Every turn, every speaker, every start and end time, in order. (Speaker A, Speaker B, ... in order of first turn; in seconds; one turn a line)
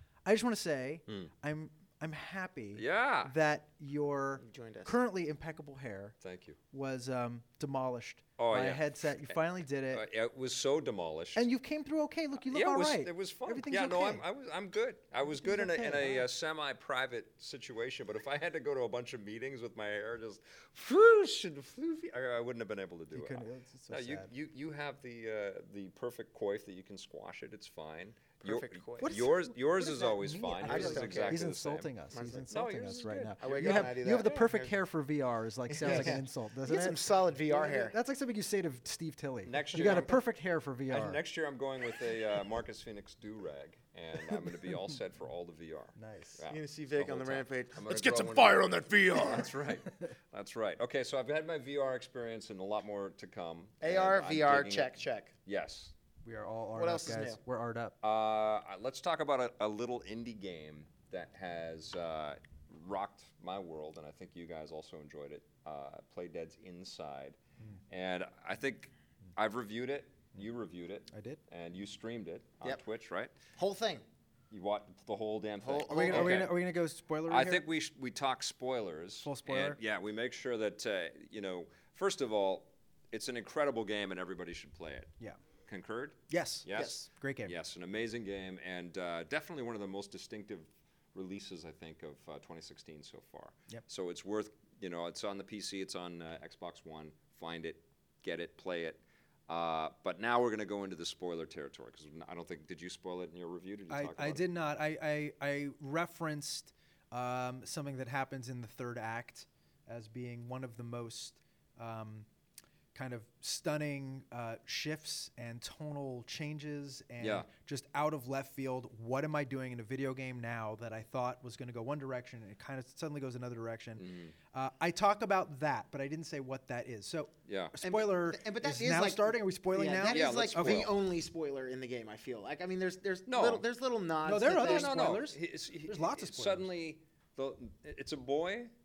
Speaker A: 0.2-6.2
Speaker B: 2.7-3.3
Speaker C: 4.4-4.9
Speaker B: 6.2-6.6
Speaker A: 6.7-10.0
Speaker B: 8.4-9.3
Speaker B: 9.9-11.5
Speaker A: 11.3-14.2
Speaker B: 12.4-31.9
Speaker A: 15.4-16.3
Speaker A: 23.1-24.3
Speaker C: 28.4-29.1
Speaker A: 29.0-41.2
Speaker C: 30.6-31.5
Speaker C: 32.1-32.5
Speaker B: 32.5-34.0
Speaker C: 33.4-34.8
Speaker C: 35.7-37.9
Speaker B: 35.8-36.2
Speaker B: 39.5-40.2
Speaker B: 40.9-54.9
Speaker A: 46.0-46.4
Speaker C: 46.5-49.5
Speaker C: 53.8-55.3
Speaker B: 55.5-55.9
Speaker A: 56.2-58.0
Speaker C: 56.8-57.4
Speaker B: 58.0-67.4
Speaker B: 67.9-73.3
Speaker A: 71.1-71.4
Speaker C: 73.5-74.0
Speaker B: 74.5-76.5
Speaker C: 75.6-76.5
Speaker A: 75.9-77.7
Speaker B: 77.3-85.1
Speaker A: 79.2-79.8
Speaker B: 85.7-104.4
Speaker A: 86.3-87.5
Speaker C: 86.7-87.1
Speaker A: 103.9-112.3
Speaker A: 112.9-130.9
Speaker B: 117.2-117.5
Speaker B: 124.0-124.3
Speaker B: 127.5-127.8
Speaker C: 127.8-135.2
Speaker B: 130.1-130.9
Speaker B: 133.3-133.6
Speaker A: 134.2-136.7
Speaker B: 134.5-138.7